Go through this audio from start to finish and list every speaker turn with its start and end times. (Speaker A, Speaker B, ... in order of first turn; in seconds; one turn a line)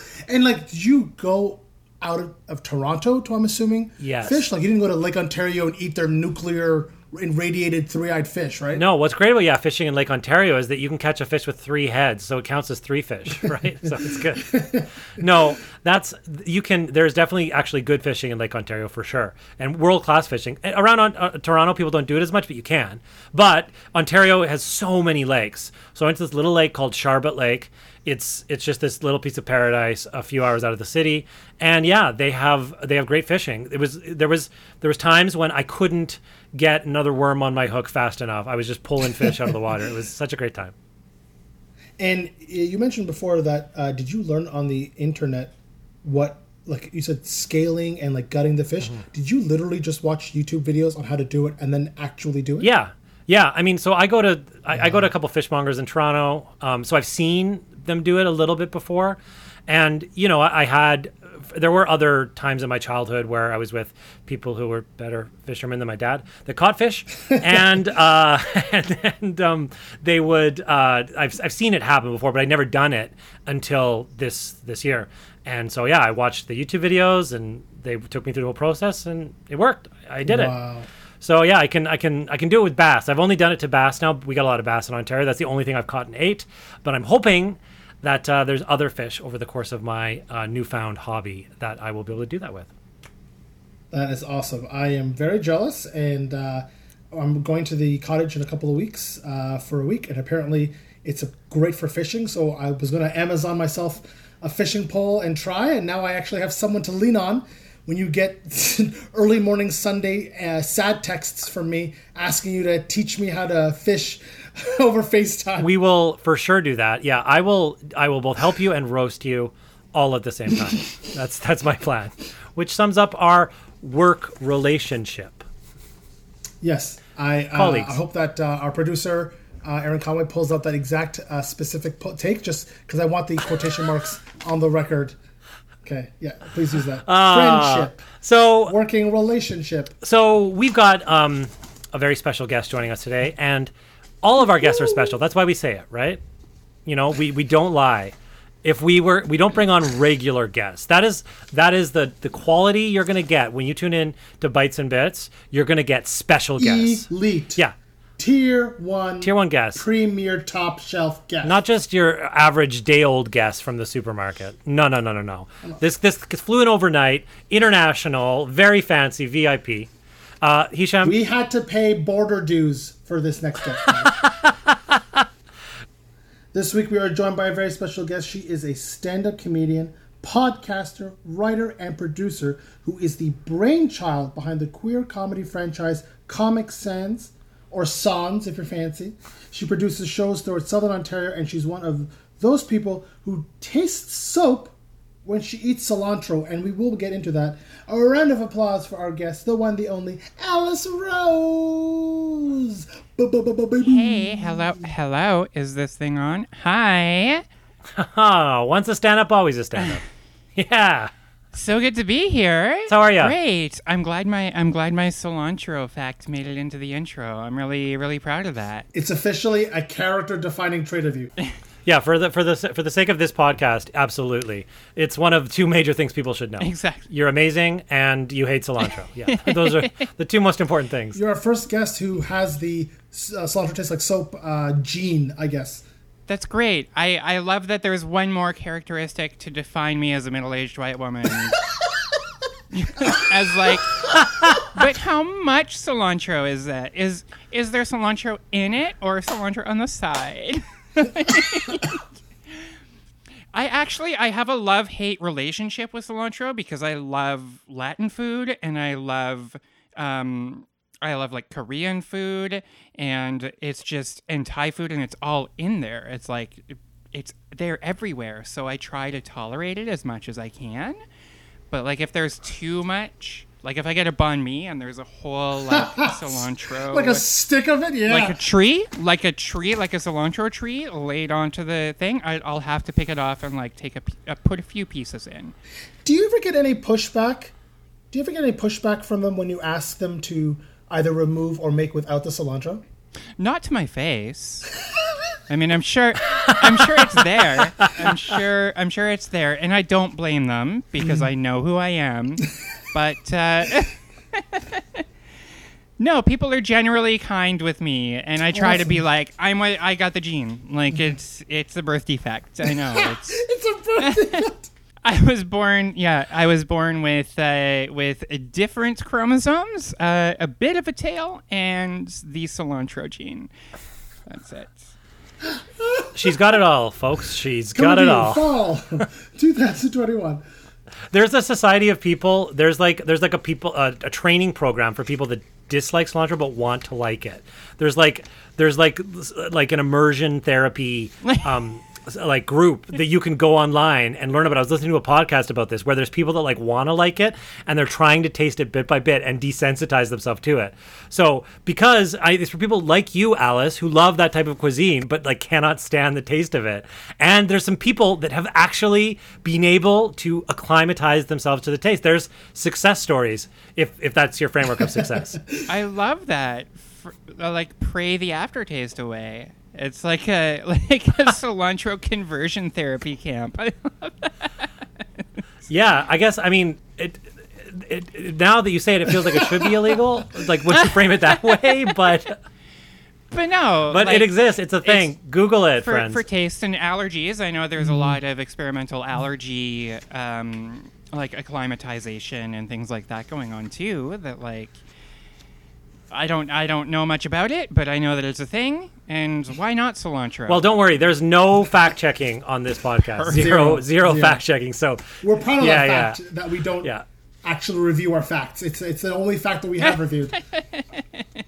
Speaker A: 0.3-8.8
Speaker B: 4.0-4.5
Speaker B: 8.7-14.6
Speaker A: 14.0-15.2
Speaker B: 15.2-40.7
Speaker A: 42.0-52.7
Speaker B: 52.6-80.5
Speaker A: 54.7-55.1
Speaker A: 80.3-80.9
Speaker B: 81.2-92.7
Speaker A: 93.9-115.7
Speaker B: 115.6-125.5
Speaker A: 126.6-135.2
Speaker B: 127.5-128.0
Speaker A: 135.8-138.0
Speaker B: 137.1-138.8
Speaker A: 138.7-139.9
Speaker B: 140.0-146.2
Speaker A: 144.6-145.1
Speaker B: 146.9-157.7
Speaker A: 156.6-157.6
Speaker A: 158.2-161.6
Speaker B: 159.2-159.8
Speaker B: 161.4-169.9
Speaker B: 170.4-171.2
Speaker A: 171.0-174.2
Speaker A: 176.5-204.9
Speaker C: 203.8-207.4
Speaker B: 207.9-210.0
Speaker B: 210.6-211.1
Speaker C: 211.5-218.9
Speaker B: 212.9-213.4
Speaker A: 218.9-221.3
Speaker B: 221.9-231.2
Speaker C: 226.6-227.1
Speaker C: 229.3-229.9
Speaker A: 231.2-235.8
Speaker C: 236.3-241.6
Speaker C: 242.7-243.9
Speaker C: 244.7-252.0
Speaker C: 253.5-271.0
Speaker C: 271.7-277.3
Speaker A: 275.7-278.4
Speaker C: 278.1-285.6
Speaker A: 286.0-287.5
Speaker A: 288.1-292.8
Speaker C: 293.4-294.7
Speaker C: 295.5-304.8
Speaker A: 301.0-301.3
Speaker C: 306.0-313.4
Speaker A: 308.5-309.0
Speaker A: 312.6-314.7
Speaker C: 314.1-314.4
Speaker C: 315.1-323.5
Speaker C: 324.3-324.9
Speaker A: 325.8-326.1
Speaker B: 326.1-328.5
Speaker A: 327.8-330.4
Speaker B: 331.1-365.4
Speaker A: 365.0-365.6
Speaker C: 365.7-374.6
Speaker B: 375.7-382.4
Speaker A: 379.3-379.7
Speaker C: 383.3-384.3
Speaker B: 383.9-386.2
Speaker C: 384.8-385.1
Speaker C: 385.8-394.8
Speaker A: 387.8-388.2
Speaker C: 396.1-400.7
Speaker B: 400.5-406.2
Speaker C: 403.1-403.5
Speaker A: 403.3-404.4
Speaker A: 405.2-406.9
Speaker A: 407.4-410.4